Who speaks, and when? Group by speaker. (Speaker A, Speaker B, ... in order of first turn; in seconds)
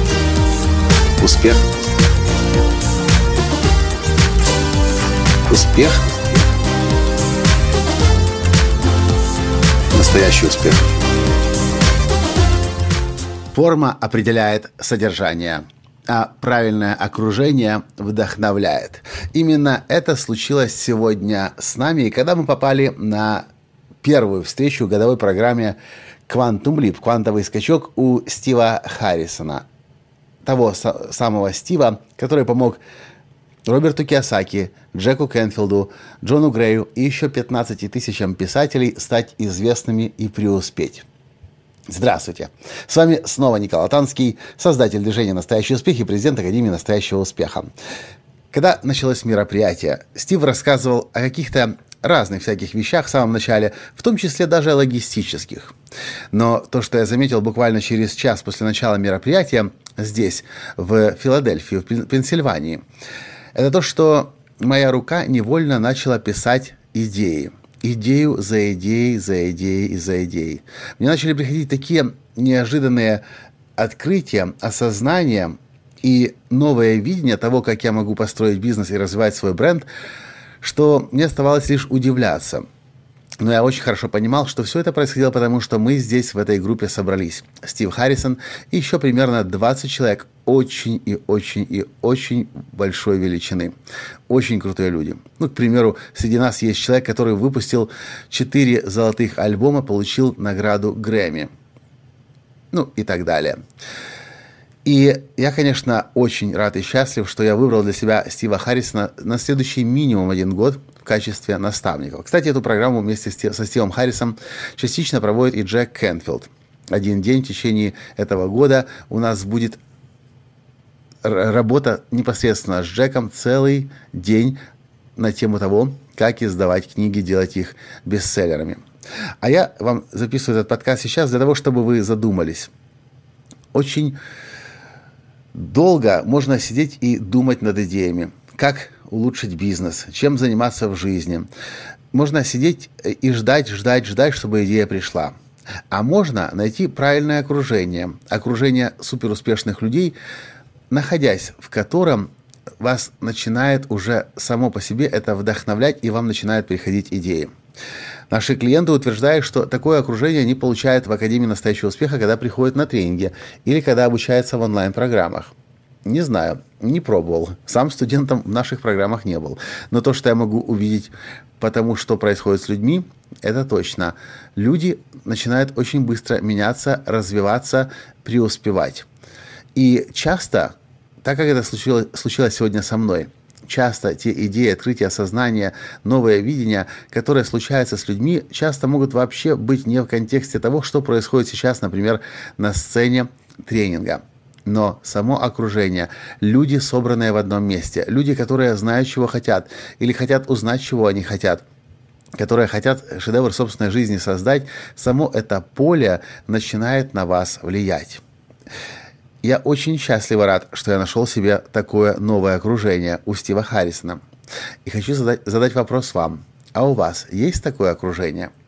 Speaker A: 1.2-1.6, 5.5-6.2, 9.9-10.9, 13.5-23.5, 24.0-25.8, 26.3-29.6, 30.4-32.8, 33.7-41.1, 41.9-47.7, 48.5-55.8, 56.3-62.8, 63.5-73.2, 73.8-79.9, 80.6-82.7, 83.4-93.8, 94.3-101.5, 102.7-103.6, 104.8-119.8, 121.2-124.6, 125.2-128.8, 129.4-132.7, 133.7-134.2, 135.5-141.5, 142.1-145.3, 145.9-150.2, 150.9-157.5, 158.3-165.5, 166.1-179.1, 179.8-201.6, 202.4-208.2, 209.4-214.2, 214.8-218.5